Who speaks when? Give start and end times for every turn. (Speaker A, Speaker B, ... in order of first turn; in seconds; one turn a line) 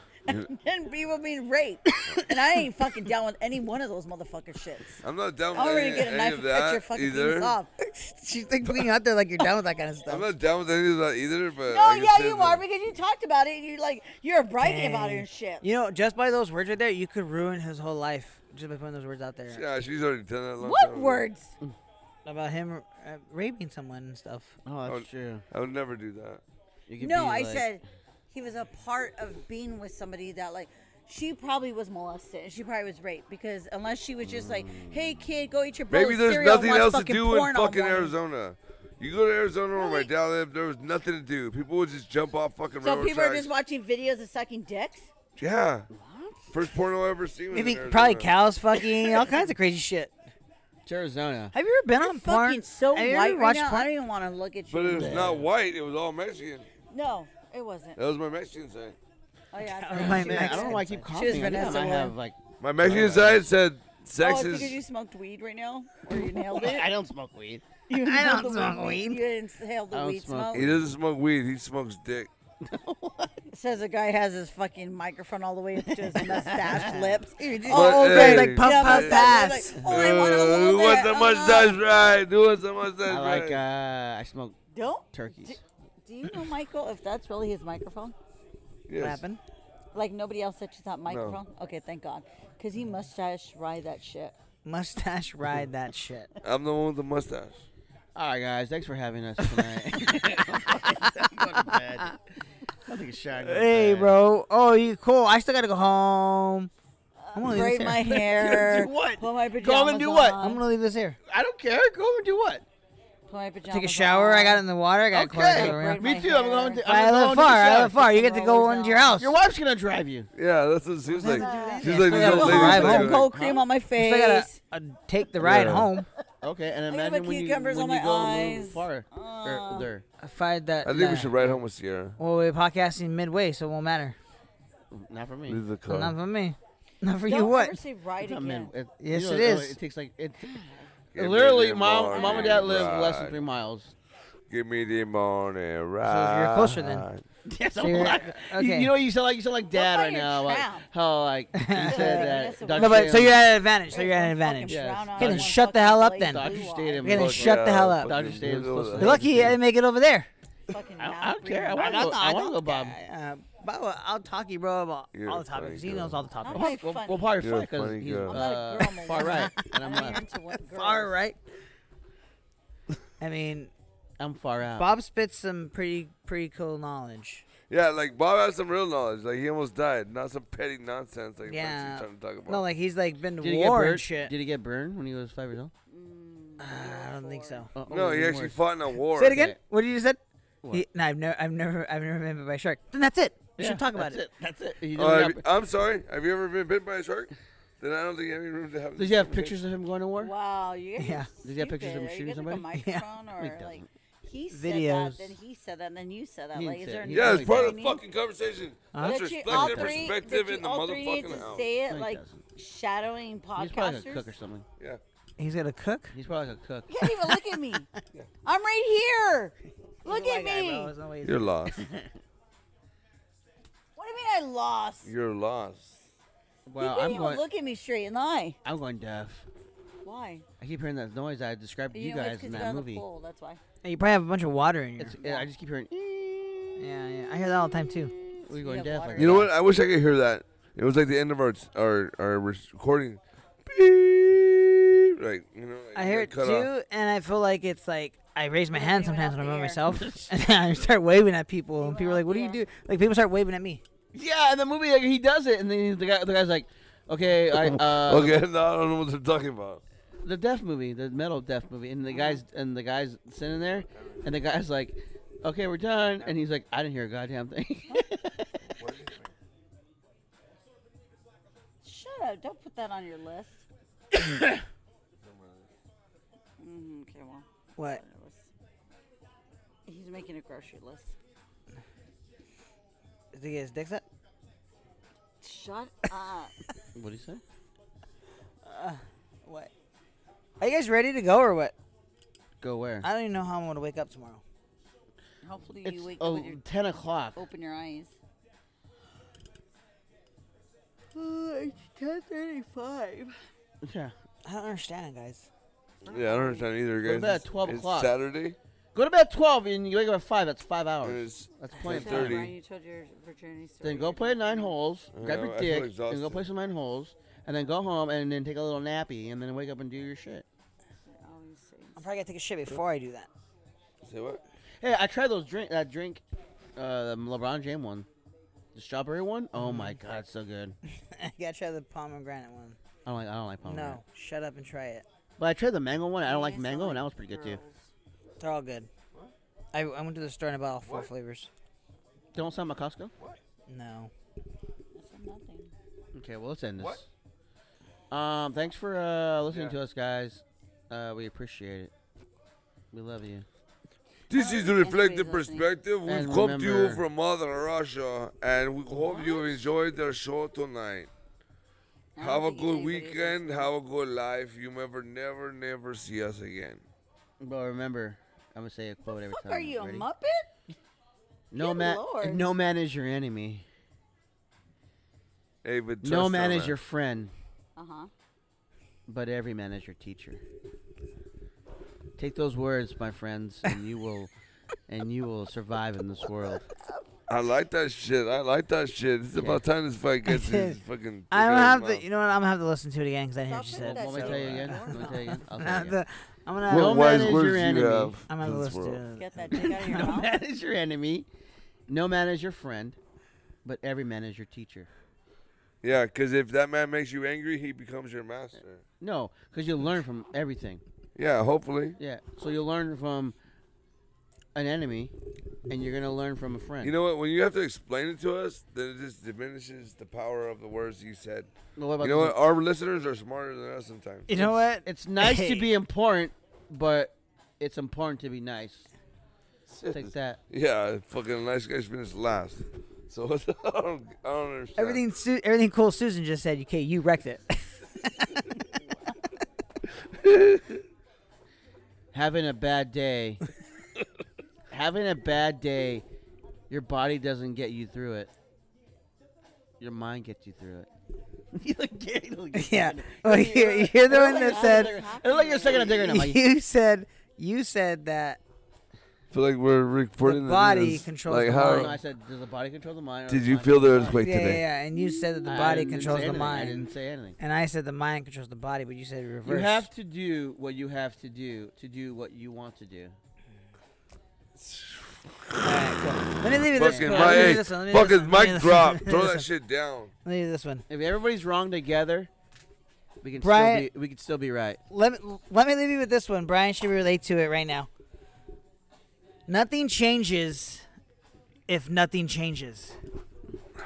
Speaker A: 0.3-5.0
Speaker B: 5.0-7.6
Speaker A: 5.5-7.7
Speaker C: 7.8-10.3
Speaker B: 10.1-12.6
Speaker A: 11.7-15.6
Speaker C: 14.6-19.6
Speaker B: 19.5-21.3
Speaker A: 20.6-21.6
Speaker C: 22.2-24.6
Speaker D: 24.6-25.5
Speaker B: 24.9-26.4
Speaker D: 26.9-27.7
Speaker A: 27.0-38.1
Speaker D: 34.2-35.2
Speaker B: 35.9-43.5
Speaker A: 39.8-40.1
Speaker A: 42.8-45.1
Speaker B: 45.4-45.9
Speaker D: 45.9-46.6
Speaker B: 46.5-48.3
Speaker C: 47.5-50.1
Speaker D: 50.9-51.5
Speaker C: 51.5-53.9
Speaker A: 52.0-55.4
Speaker B: 54.7-56.7
Speaker D: 54.9-55.5
Speaker A: 56.9-58.0
Speaker B: 58.0-59.0
Speaker A: 59.5-62.1
Speaker C: 59.6-61.1
Speaker D: 59.9-63.5
Speaker B: 62.6-64.8
Speaker A: 64.2-66.9
Speaker D: 66.1-67.6
Speaker A: 67.9-70.8
Speaker C: 68.0-69.3
Speaker D: 69.9-70.8
Speaker B: 70.5-72.3
Speaker D: 72.6-73.5
Speaker A: 73.5-81.8
Speaker D: 76.0-77.2
Speaker C: 77.4-79.8
Speaker B: 77.7-79.2
Speaker B: 79.8-83.6
Speaker D: 83.0-84.6
Speaker A: 84.7-88.2
Speaker D: 85.1-85.6
Speaker B: 88.9-89.2
Speaker C: 89.0-89.4
Speaker A: 89.9-94.4
Speaker B: 91.1-91.4
Speaker C: 94.7-96.3
Speaker B: 96.4-97.6
Speaker D: 98.2-102.2
Speaker D: 102.8-104.2
Speaker C: 103.4-106.7
Speaker A: 107.2-110.6
Speaker C: 107.3-108.0
Speaker D: 108.1-110.4
Speaker C: 110.4-111.2
Speaker D: 111.3-112.7
Speaker A: 113.3-114.6
Speaker C: 113.7-116.3
Speaker D: 115.1-118.0
Speaker A: 115.5-116.8
Speaker C: 116.8-119.3
Speaker A: 117.9-119.2
Speaker D: 119.2-120.3
Speaker B: 120.3-123.2
Speaker C: 121.1-123.3
Speaker A: 121.4-124.5
Speaker D: 121.5-123.6
Speaker C: 124.0-126.1
Speaker B: 125.4-125.9
Speaker D: 126.4-130.1
Speaker A: 126.9-129.9
Speaker C: 130.2-131.3
Speaker B: 130.8-132.2
Speaker C: 132.2-134.2
Speaker D: 134.9-135.6
Speaker B: 135.5-136.2
Speaker C: 135.9-137.8
Speaker A: 137.3-138.7
Speaker D: 138.2-140.5
Speaker C: 139.0-139.8
Speaker A: 140.4-140.9
Speaker B: 141.1-143.4
Speaker D: 141.2-143.9
Speaker A: 142.1-142.7
Speaker B: 144.5-147.2
Speaker C: 146.0-147.1
Speaker D: 147.4-153.4
Speaker C: 147.8-148.9
Speaker A: 149.7-150.9
Speaker C: 151.6-158.2
Speaker A: 151.8-157.1
Speaker D: 154.7-155.6
Speaker D: 156.2-159.6
Speaker B: 157.1-159.5
Speaker C: 158.9-160.3
Speaker A: 160.7-162.2
Speaker D: 161.0-163.0
Speaker C: 161.7-166.8
Speaker B: 165.1-166.2
Speaker A: 166.4-167.4
Speaker D: 166.5-170.2
Speaker B: 167.4-168.4
Speaker A: 168.3-171.2
Speaker C: 169.1-170.0
Speaker C: 170.7-171.4
Speaker C: 173.2-173.7
Speaker D: 174.2-174.9
Speaker C: 174.8-177.4
Speaker B: 177.7-182.7
Speaker C: 181.5-184.3
Speaker D: 183.4-185.7
Speaker A: 185.9-187.7
Speaker C: 186.6-187.7
Speaker D: 187.8-188.6
Speaker B: 187.9-189.4
Speaker C: 189.1-190.2
Speaker D: 189.2-189.6
Speaker C: 190.7-194.2
Speaker D: 193.6-195.4
Speaker B: 195.0-199.6
Speaker D: 199.0-200.3
Speaker A: 200.2-208.0
Speaker C: 201.0-201.3
Speaker D: 201.4-202.7
Speaker C: 202.8-203.0
Speaker D: 203.4-203.9
Speaker C: 204.5-205.3
Speaker D: 206.5-207.9
Speaker B: 207.1-211.7
Speaker C: 208.9-209.6
Speaker A: 209.0-214.3
Speaker D: 209.5-210.1
Speaker D: 211.9-212.4
Speaker D: 213.6-214.7
Speaker C: 215.4-216.1
Speaker D: 216.1-216.9
Speaker A: 216.9-217.9
Speaker C: 217.0-217.4
Speaker A: 218.4-220.9
Speaker C: 220.1-221.5
Speaker B: 221.2-221.8
Speaker D: 221.7-222.1
Speaker A: 224.0-225.1
Speaker B: 225.1-226.0
Speaker D: 226.7-227.4
Speaker A: 226.8-228.6
Speaker D: 228.7-229.5
Speaker A: 230.0-230.5
Speaker D: 230.6-233.0
Speaker A: 231.9-233.6
Speaker C: 233.8-235.5
Speaker D: 235.0-236.9
Speaker C: 236.8-238.1
Speaker D: 238.4-239.5
Speaker A: 238.5-239.5
Speaker B: 239.2-246.7
Speaker C: 245.9-253.8
Speaker A: 248.7-249.8
Speaker D: 249.9-250.3
Speaker A: 251.8-252.6
Speaker D: 254.1-258.4
Speaker B: 257.5-259.8
Speaker D: 260.2-268.6
Speaker B: 263.9-264.2
Speaker B: 268.6-269.3
Speaker A: 271.8-273.6
Speaker B: 275.2-275.7
Speaker A: 276.6-278.5
Speaker A: 279.9-281.1
Speaker C: 283.3-284.0
Speaker A: 285.4-286.5
Speaker D: 286.9-287.4
Speaker C: 288.6-289.7
Speaker C: 290.6-291.7
Speaker D: 292.6-293.1
Speaker C: 293.0-294.4
Speaker A: 295.4-296.6
Speaker D: 295.8-297.4
Speaker A: 297.4-298.1
Speaker A: 301.1-303.4
Speaker D: 303.8-304.1
Speaker C: 304.4-305.5
Speaker B: 306.1-308.6
Speaker A: 306.1-306.6
Speaker D: 307.0-308.1
Speaker D: 308.9-312.5
Speaker B: 311.0-312.5
Speaker A: 311.8-314.8
Speaker D: 313.8-320.5
Speaker B: 315.1-316.5
Speaker A: 321.1-322.0
Speaker C: 322.0-323.3
Speaker B: 324.0-324.4
Speaker D: 324.8-326.2
Speaker D: 326.8-328.1
Speaker D: 328.7-330.8
Speaker C: 329.6-330.0
Speaker C: 331.1-332.8
Speaker D: 333.1-334.0
Speaker C: 333.6-335.0
Speaker D: 335.4-337.6
Speaker A: 336.2-337.9
Speaker C: 338.4-338.9
Speaker C: 339.7-341.5
Speaker D: 342.3-343.1
Speaker C: 343.7-344.1
Speaker A: 344.9-345.7
Speaker D: 346.1-347.1
Speaker D: 348.1-351.9
Speaker B: 349.5-349.8
Speaker D: 352.9-353.5
Speaker B: 354.3-361.1
Speaker A: 354.3-355.7
Speaker D: 356.1-357.0
Speaker A: 358.9-359.6
Speaker A: 362.2-363.7
Speaker B: 362.2-366.8
Speaker D: 367.4-370.1
Speaker A: 369.1-370.5
Speaker D: 371.5-373.6
Speaker A: 371.6-372.5
Speaker B: 375.6-376.8
Speaker D: 376.0-377.3
Speaker A: 377.8-378.1
Speaker D: 379.1-380.4
Speaker D: 382.2-384.3
Speaker D: 384.9-386.7
Speaker B: 387.3-392.0
Speaker D: 389.4-389.6
Speaker C: 390.2-390.8
Speaker C: 391.3-397.4
Speaker A: 393.5-395.4
Speaker D: 393.8-396.0
Speaker D: 396.7-398.2
Speaker B: 396.7-399.0
Speaker C: 398.3-399.7
Speaker A: 399.1-400.3
Speaker D: 399.5-401.3
Speaker D: 401.9-403.0
Speaker D: 403.6-404.9
Speaker B: 405.8-408.8
Speaker D: 409.0-410.8
Speaker B: 411.2-412.0
Speaker D: 412.0-413.4
Speaker D: 414.6-415.1
Speaker D: 415.7-416.9
Speaker B: 416.8-421.5
Speaker D: 421.8-422.4
Speaker B: 422.0-424.4
Speaker C: 424.3-425.7
Speaker D: 424.3-428.9
Speaker B: 429.7-435.0
Speaker D: 429.9-430.4
Speaker C: 434.8-438.5
Speaker B: 440.1-440.8
Speaker D: 442.1-443.4
Speaker D: 444.7-446.1
Speaker D: 446.7-448.3
Speaker D: 449.8-450.9
Speaker D: 451.5-456.4
Speaker C: 452.6-455.0
Speaker A: 454.1-455.9
Speaker C: 455.9-458.4
Speaker B: 459.3-461.9
Speaker C: 460.2-462.0
Speaker D: 461.6-464.3
Speaker B: 463.3-464.6
Speaker C: 464.2-466.9
Speaker D: 465.4-467.4
Speaker C: 467.4-469.9
Speaker D: 469.4-473.2
Speaker B: 474.6-475.7
Speaker C: 475.6-479.5
Speaker B: 476.6-480.1
Speaker D: 476.8-477.6
Speaker C: 480.2-480.9
Speaker D: 480.9-482.3
Speaker D: 483.2-484.8
Speaker C: 483.4-483.9
Speaker C: 484.9-487.9
Speaker C: 489.5-490.9
Speaker C: 491.7-493.0